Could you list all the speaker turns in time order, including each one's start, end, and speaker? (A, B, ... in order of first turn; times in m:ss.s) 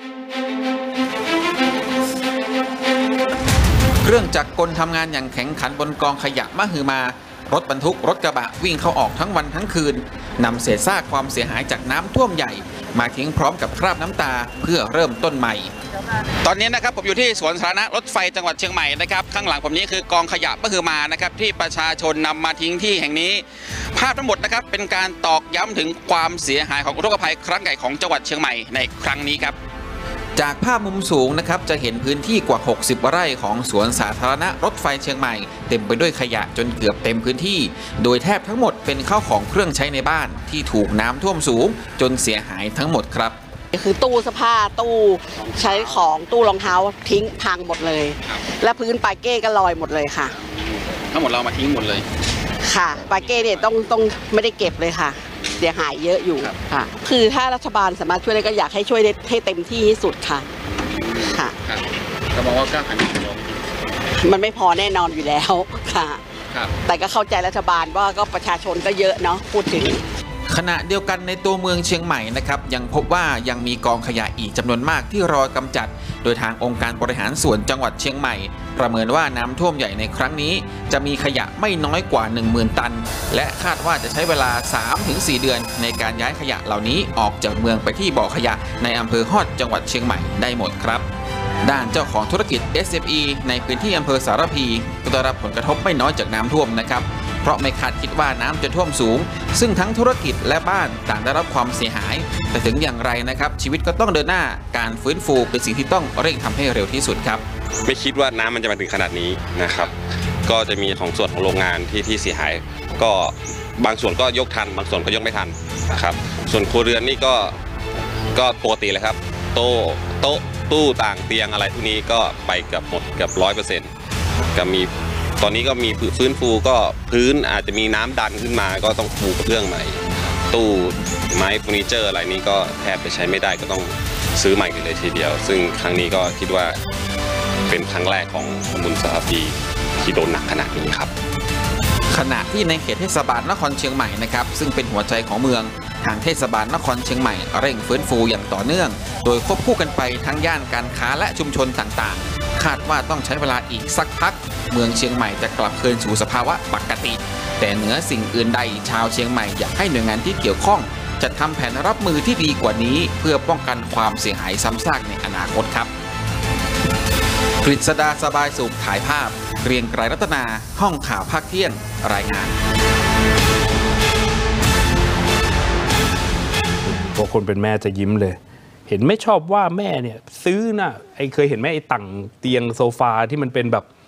0:04.0-0:15.7 A
0:16.4-0:29.6 B
0:30.4-0:43.4 A
0:43.7-0:50.3 C
0:50.9-0:52.0 B
0:52.6-1:00.4 C
0:53.0-0:53.6 B
1:01.0-1:03.5 B
1:01.2-1:01.5 C
1:04.2-1:06.2 C
1:06.8-1:10.0 C
1:10.5-1:31.0 A
1:31.6-1:47.4 A
1:47.8-1:49.9 D
1:50.4-1:57.6 D
1:58.3-2:03.9 D
2:04.5-2:16.8 D
2:17.7-2:21.1 D
2:22.1-2:45.9 A
2:47.6-2:52.6 A
2:56.8-3:03.9 E